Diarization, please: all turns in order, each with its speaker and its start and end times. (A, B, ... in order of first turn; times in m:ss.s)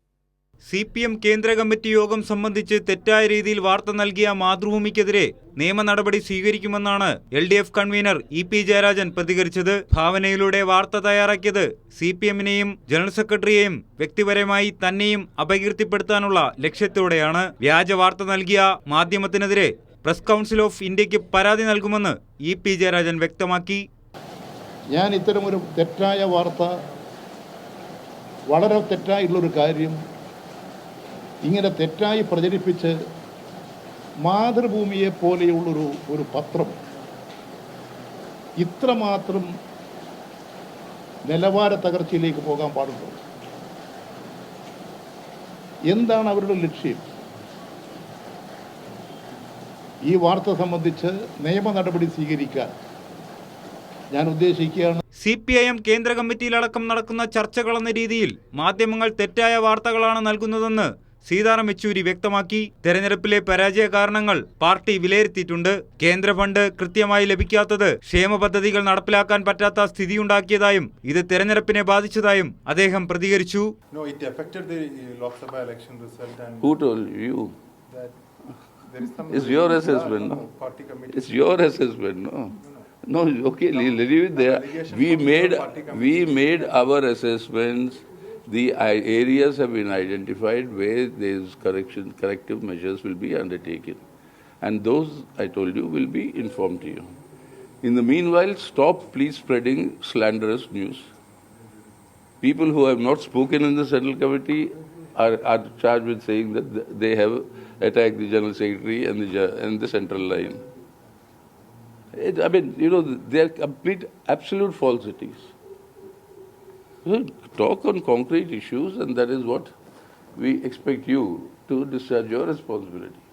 0:00.6-0:23.9 A
0:24.9-0:26.8 B
0:28.5-0:30.0 B
0:31.4-0:32.9 B
0:34.2-0:36.8 B
0:38.6-0:39.5 B
0:41.3-0:43.2 B
0:45.9-0:47.0 B
0:50.1-0:52.7 B
0:54.1-0:55.0 B
0:55.2-1:13.7 A
1:13.9-1:16.8 C
1:16.6-1:17.5 D
1:17.9-1:18.2 C
1:18.9-1:22.0 C
1:19.3-1:20.4 D
1:21.1-1:34.0 D
1:23.7-1:26.8 C
1:34.6-1:37.1 D
1:37.8-1:41.1 D
1:42.4-1:50.6 D
1:52.1-1:55.5 D
1:57.0-1:59.7 D
2:00.4-2:03.2 D